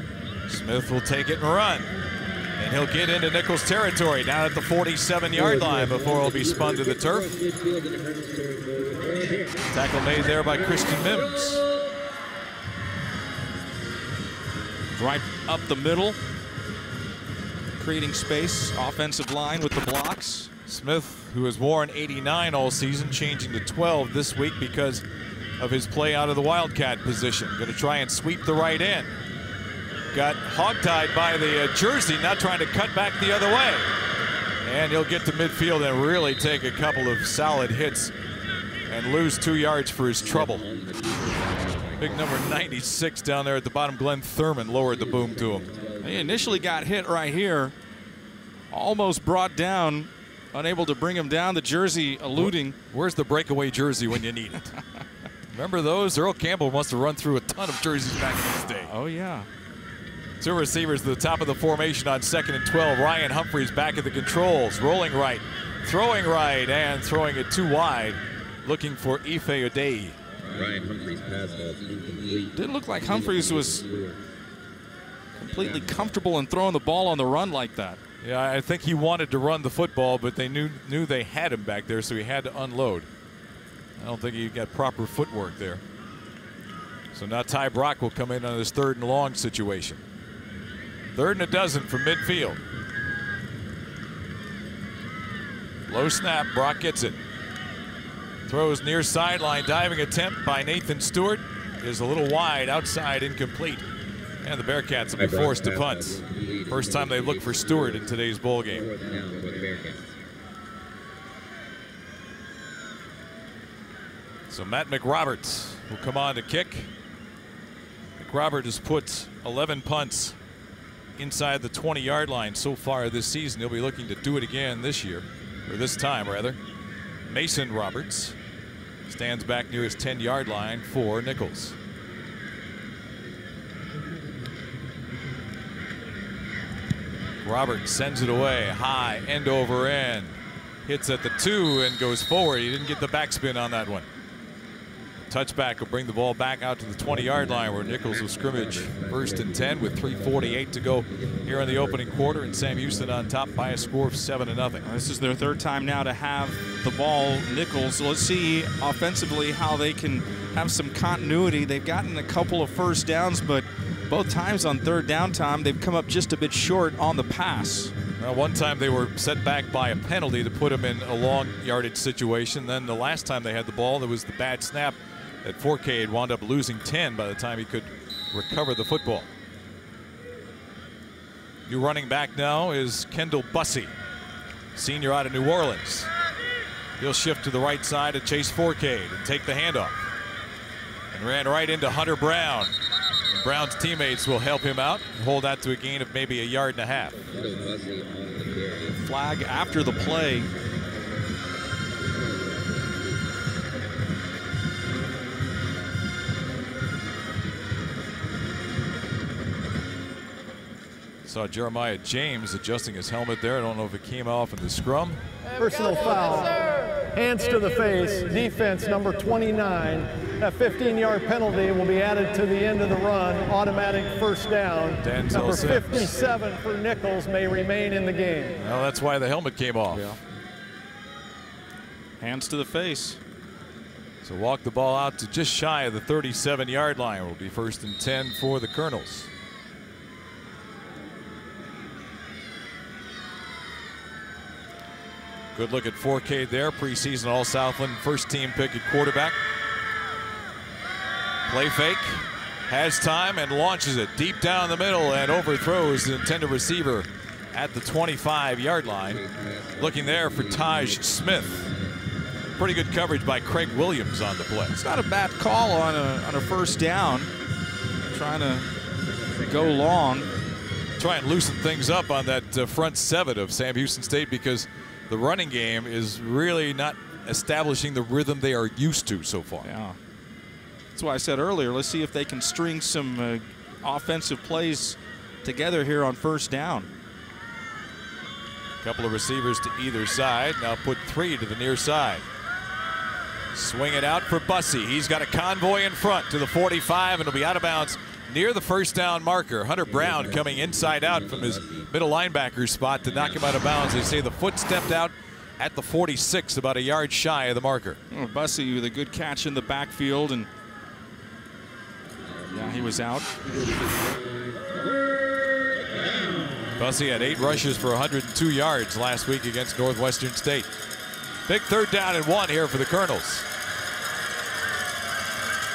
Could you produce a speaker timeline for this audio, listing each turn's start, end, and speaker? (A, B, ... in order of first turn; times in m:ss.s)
0:00.5-0:01.9 A
0:02.6-0:07.3 A
0:05.5-0:09.6 B
0:09.7-0:11.6 A
0:15.0-0:16.2 C
0:17.8-0:20.5 C
0:20.7-0:25.0 A
0:25.6-0:29.1 A
0:30.1-0:33.9 A
0:34.6-0:38.1 A
0:38.9-0:40.6 A
0:40.3-0:42.3 B
0:42.0-0:45.7 A
0:46.0-0:47.8 C
0:48.7-0:52.8 C
0:52.3-0:54.7 A
0:55.5-0:58.9 A
0:58.9-0:59.5 C
1:00.4-1:10.2 A
1:10.4-1:14.2 B
1:12.5-1:13.8 C
1:15.4-1:18.0 C
1:15.5-1:16.1 B
1:18.2-1:23.1 A
1:24.0-1:25.8 A
1:27.1-1:30.0 A
1:31.2-1:32.6 A
1:35.9-1:37.2 A
1:38.5-1:43.9 A
1:44.4-1:48.9 A
1:45.2-1:48.0 B
1:48.8-1:50.1 B
1:54.5-1:56.9 A
1:58.2-2:00.4 A
2:01.2-2:06.6 A
2:07.3-2:08.4 A
2:09.1-2:11.8 A
2:17.4-2:24.1 A
2:25.2-2:34.8 A
2:28.4-2:29.0 B
2:34.8-2:47.9 C
2:48.2-2:59.3 A
3:01.7-3:03.9 A
3:04.8-3:06.1 A
3:07.0-3:10.0 A
3:11.1-3:12.7 A
3:13.3-3:17.2 A
3:17.3-3:19.0 B
3:19.0-3:20.5 C
3:31.2-3:35.2 A
3:35.6-3:48.6 D
3:45.0-3:46.1 A
3:48.6-3:50.2 A
3:49.9-3:50.2 C
3:52.2-3:53.2 C
3:54.2-3:59.3 A
4:05.5-4:09.4 A
4:11.5-4:19.2 A
4:19.2-4:20.8 B
4:19.8-4:21.7 A
4:22.6-4:24.8 A
4:24.7-4:27.3 C
4:28.1-4:28.7 C
4:29.4-4:30.3 C
4:31.0-4:39.7 A
4:39.6-4:40.0 C
4:41.0-4:46.9 C
4:48.8-4:52.3 A
4:53.5-5:08.0 A
5:00.4-5:01.8 B
5:08.1-5:10.5 C
5:12.5-5:13.3 C
5:16.8-5:20.7 A
5:21.5-5:23.5 A